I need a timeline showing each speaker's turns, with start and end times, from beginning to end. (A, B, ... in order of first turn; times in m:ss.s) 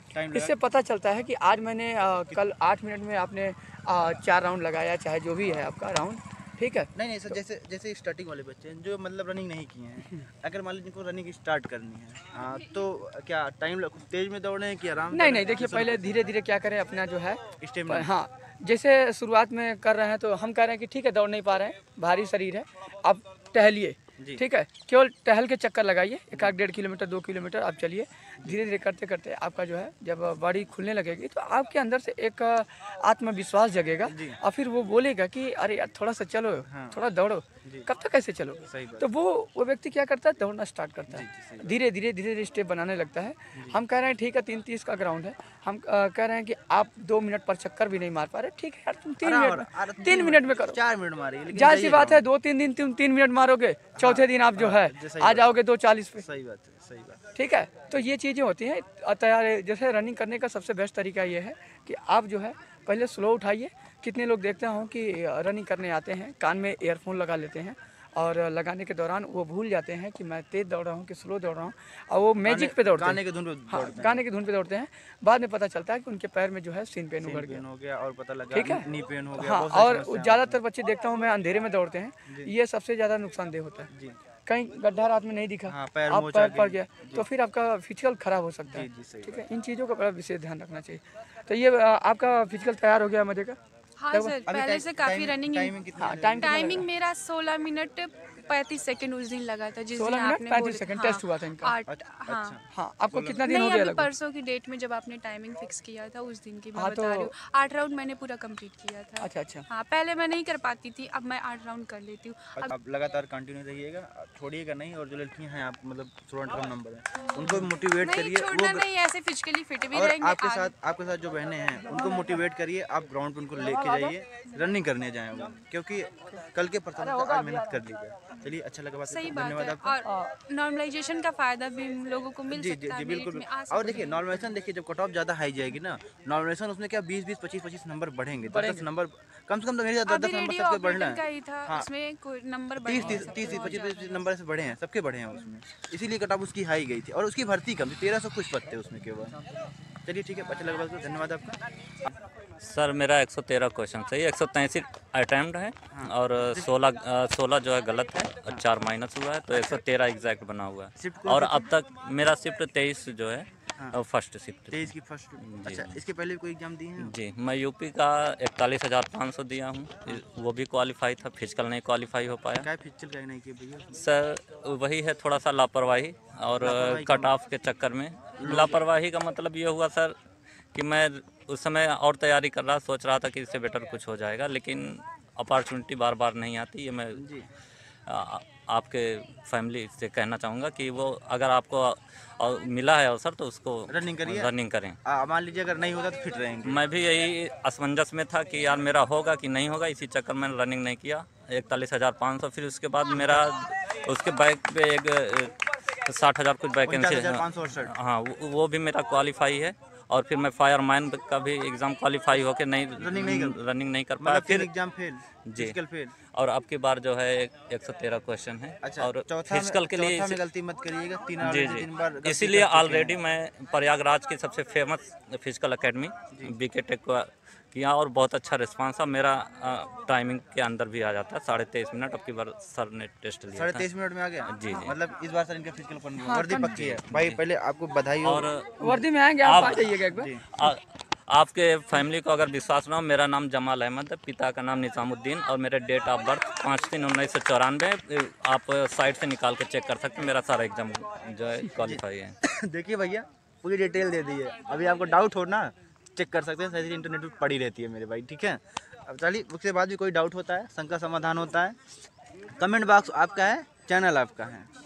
0:00.1-0:00.5 A
0:00.3-0:07.3 B
0:06.9-0:16.3 A
0:15.1-0:50.8 B
0:17.6-0:18.1 A
0:34.0-0:34.4 A
0:36.7-0:37.0 A
0:37.6-0:37.9 A
0:38.6-0:39.1 A
0:41.1-0:41.8 A
0:43.5-0:43.8 A
0:49.2-0:52.3 A
0:51.5-0:56.2 B
0:53.9-0:55.6 A
0:56.1-0:57.2 A
0:57.3-1:17.6 B
1:12.4-1:14.2 A
1:17.2-1:20.6 A
1:18.5-1:23.9 B
1:22.3-1:22.5 A
1:23.9-1:24.2 A
1:24.4-1:33.6 B
1:25.7-1:27.3 A
1:28.7-1:29.5 A
1:34.0-1:35.7 C
1:34.4-1:36.8 A
1:36.0-1:36.9 B
1:36.4-1:42.5 C
1:40.0-1:41.8 B
1:41.9-1:43.4 A
1:42.7-1:44.1 B
1:43.5-1:52.8 C
1:46.8-1:47.3 B
1:49.2-1:49.6 B
1:52.6-1:58.9 A
1:57.2-2:00.7 C
1:59.9-2:10.0 A
2:01.9-2:02.3 B
2:03.6-2:04.1 B
2:07.0-2:07.8 B
2:09.1-2:14.3 C
2:10.0-2:10.3 B
2:12.5-2:21.9 A
2:18.4-2:18.9 B
2:20.0-2:24.2 C
2:22.8-2:29.4 A
2:30.0-2:31.9 A
2:32.6-2:46.0 D
2:35.9-2:36.7 A
2:41.0-2:41.7 A
2:44.7-2:47.1 A
2:47.0-2:52.7 D
2:52.6-2:53.9 A
2:53.9-3:00.2 D
2:56.6-2:57.3 A
2:58.4-2:58.8 A
3:00.7-3:07.2 D
3:07.1-3:07.5 A
3:08.1-3:15.0 D
3:13.9-3:14.5 A
3:15.0-3:16.8 A
3:16.6-3:34.7 D
3:26.8-3:27.9 A
3:33.0-3:33.6 A
3:34.2-3:36.1 A
3:35.5-3:35.8 D
3:36.3-3:40.4 D
3:38.8-3:43.2 A
3:41.4-3:53.9 D
3:53.5-3:58.5 A
3:54.5-3:54.9 D
3:56.2-3:56.8 B
3:56.6-3:57.4 D
3:58.2-3:59.9 D
3:58.8-4:00.3 B
4:00.1-4:00.4 A
4:01.3-4:12.3 D
4:11.8-4:21.8 A
4:22.6-4:24.7 A